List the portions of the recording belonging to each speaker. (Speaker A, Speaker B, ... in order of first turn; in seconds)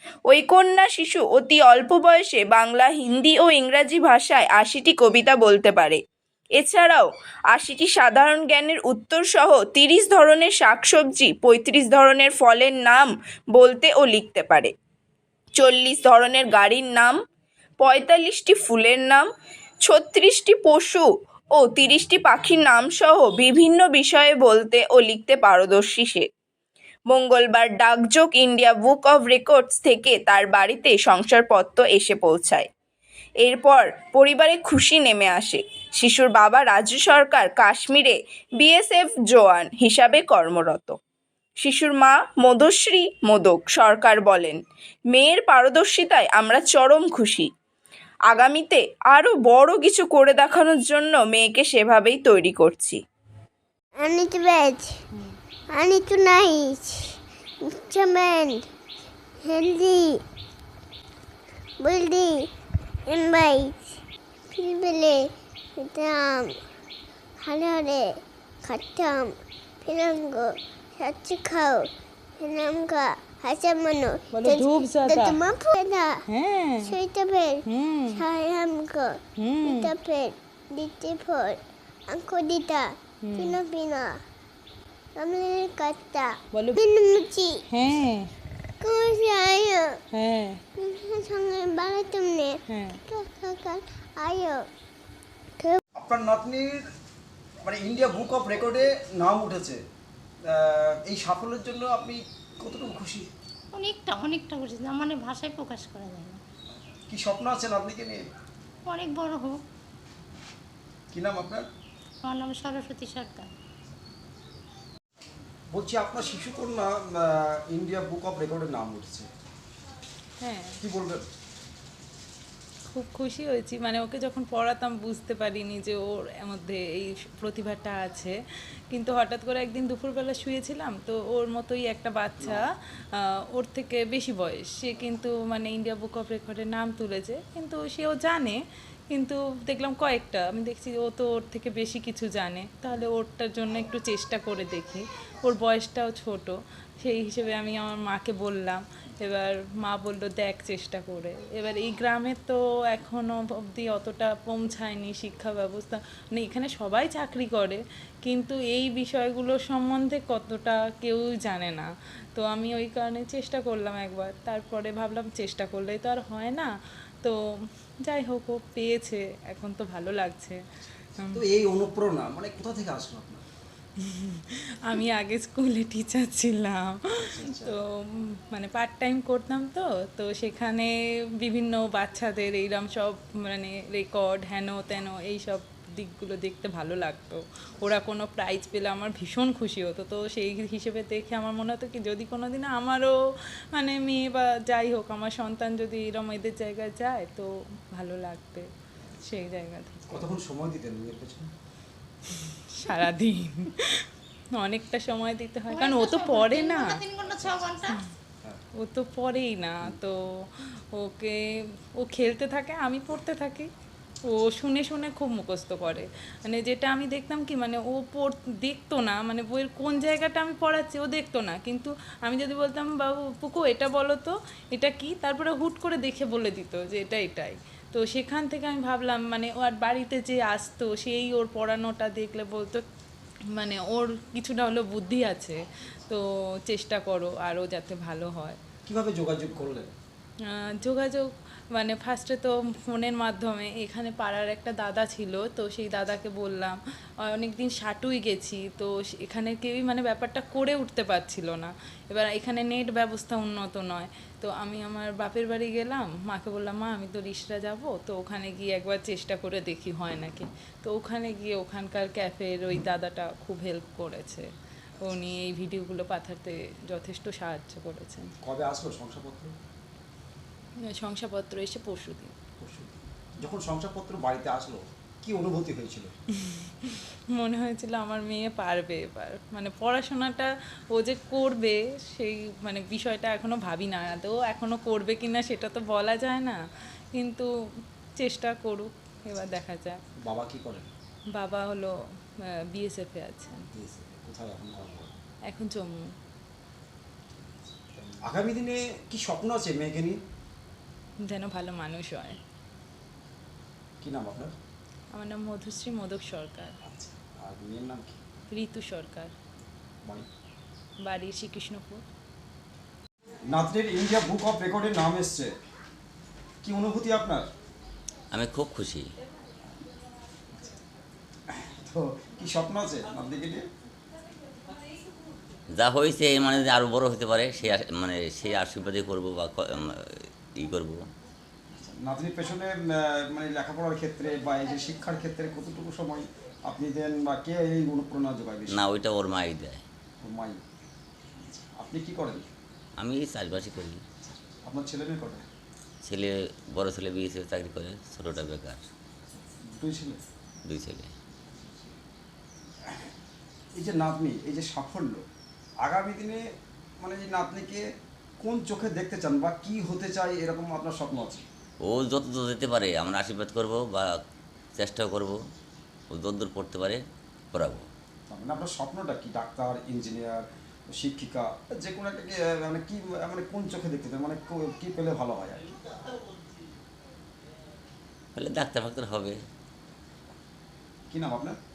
Speaker A: 0.3-6.0, 6.6-14.7, 15.6-17.1, 17.8-19.2, 19.9-26.3, 27.1-32.7, 33.4-41.0, 41.6-44.6, 45.1-47.5, 48.3-53.0
Speaker B: 54.0-55.0, 55.7-57.1, 57.6-58.6, 59.4-60.2, 61.8-62.5, 63.1-64.0, 64.5-66.6, 67.4-76.2, 76.9-84.2, 85.2-87.6, 88.8-90.0, 90.8-94.7
Speaker C: 74.3-75.4, 76.3-76.9, 77.7-78.2, 79.4-79.9, 83.2-83.6, 86.5-86.8, 87.7-88.3, 90.1-90.6, 92.7-93.0, 120.4-120.8, 122.9-128.4, 128.9-132.6, 133.5-138.6, 139.1-166.7, 167.2-170.6, 171.2-171.4, 174.0-193.2, 193.7-198.7, 199.2-200.3, 202.4-207.0, 208.8-213.7, 214.3-232.8, 233.5-238.6, 240.5-264.5, 265.0-268.3, 270.9-272.3, 276.4-286.6, 287.1-287.5, 288.2-290.0, 291.4-293.7, 295.5-296.0, 301.3-302.4, 305.1-306.8, 308.5-309.3, 311.0-312.0
Speaker D: 96.0-96.8, 97.6-99.8, 100.5-103.3, 107.1-108.2, 111.1-111.6, 115.7-119.3, 120.8-121.2, 171.3-173.4, 177.2-177.8, 200.1-201.5, 207.3-207.8, 238.8-239.9, 268.4-269.5, 272.6-276.1, 290.2-290.9, 293.7-295.1, 298.1-300.2, 304.0-304.5, 306.8-308.2, 313.5-315.5, 316.6-317.5, 321.5-323.6, 331.7-338.8, 340.2-340.6, 341.5-342.5, 344.2-345.4, 349.3-350.2, 351.6-351.8, 353.8-355.2, 355.8-356.4, 357.0-357.9, 358.4-361.4, 368.3-375.7, 381.1-381.6
Speaker E: 103.7-106.4, 108.9-109.6, 112.2-113.5, 205.7-208.0
Speaker F: 318.3-319.1, 325.7-331.1, 338.7-339.8, 343.0-344.0, 346.0-348.9, 350.6-351.1, 361.8-364.2, 364.8-365.4, 366.1-367.9, 378.4-379.4